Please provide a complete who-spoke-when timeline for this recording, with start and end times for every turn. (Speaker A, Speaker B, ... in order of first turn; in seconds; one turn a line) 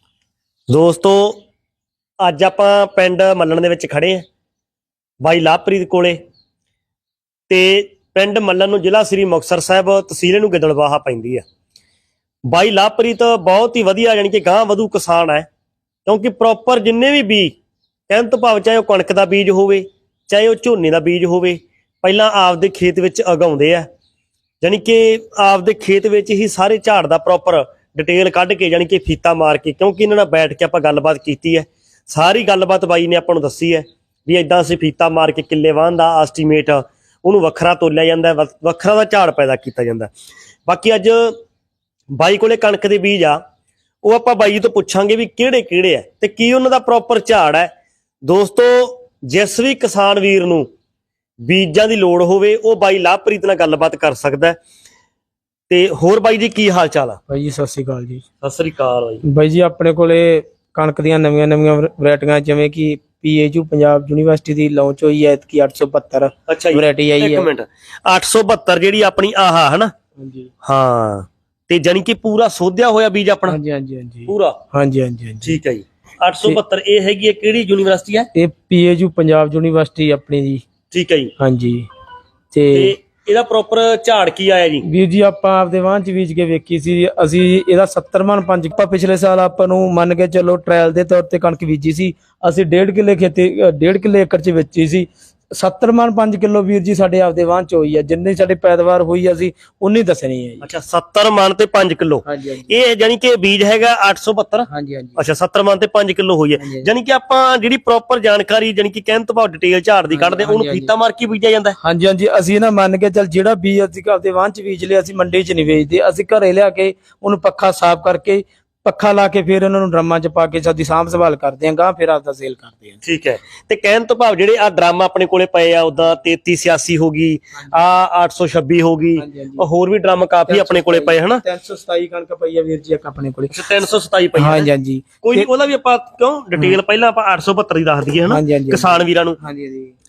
Speaker A: 0.7-1.4
Speaker A: 2.2-4.3
Speaker A: 5.2-6.2
Speaker A: 7.5-11.4
Speaker A: 12.5-15.5
Speaker A: 16.1-17.6
Speaker A: 18.1-23.9
Speaker A: 24.6-40.1
Speaker A: 40.6-41.4
Speaker A: 42.1-43.4
Speaker A: 44.0-47.7
Speaker A: 48.2-50.7
Speaker A: 51.4-54.6
Speaker A: 55.7-57.2
Speaker B: 57.3-58.2
Speaker A: 58.4-59.2
Speaker B: 59.2-67.5
Speaker A: 66.5-69.9
Speaker B: 70.2-70.5
Speaker A: 70.6-73.6
Speaker B: 73.5-75.6
Speaker A: 74.3-74.6
Speaker A: 75.4-78.3
Speaker B: 78.3-80.6
Speaker A: 80.9-81.3
Speaker B: 81.4-81.8
Speaker B: 82.5-82.9
Speaker A: 82.7-84.9
Speaker B: 84.8-100.7
Speaker A: 100.6-111.8
Speaker B: 102.2-102.7
Speaker B: 104.7-105.2
Speaker B: 106.6-106.9
Speaker B: 110.1-110.9
Speaker B: 111.8-123.0
Speaker A: 123.0-131.4
Speaker B: 129.2-129.7
Speaker B: 130.5-133.7
Speaker A: 133.5-134.7
Speaker B: 134.3-135.5
Speaker A: 135.2-139.4
Speaker B: 138.3-139.9